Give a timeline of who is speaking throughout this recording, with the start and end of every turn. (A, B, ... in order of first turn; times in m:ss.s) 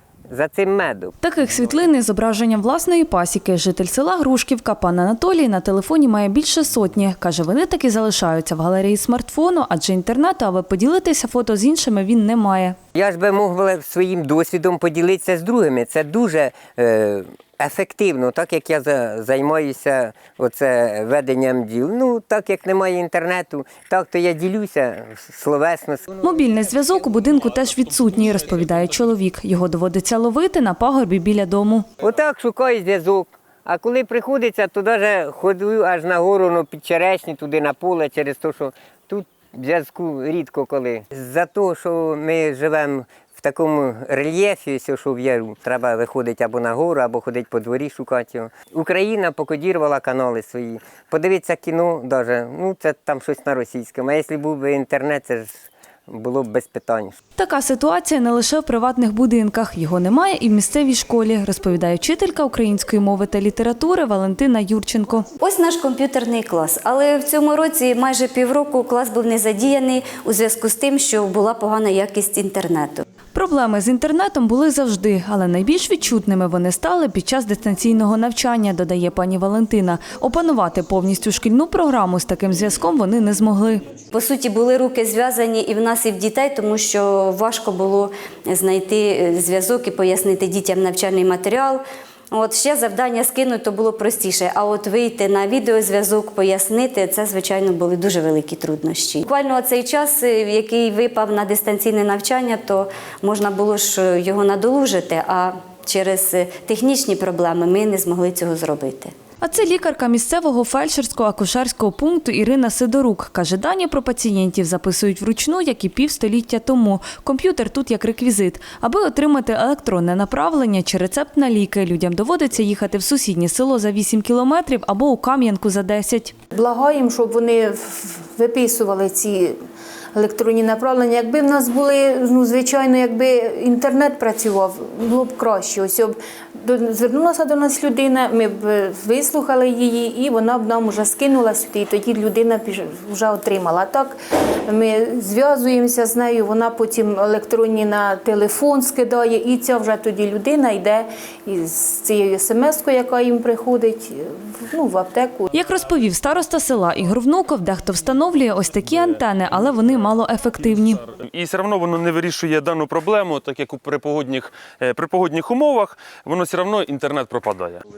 0:00.3-0:01.1 A
0:01.2-0:12.8 B
0:13.0-0:26.2 A
0:26.2-0:31.9 B
0:32.0-0:57.2 A
0:57.4-1:05.3 B
1:05.4-1:13.0 C
1:13.3-1:23.8 B
1:24.1-1:49.1 C
1:49.4-2:06.3 B
2:06.5-2:09.6 D
2:10.1-2:35.5 D
2:35.5-2:41.0 B
2:41.0-2:47.8 E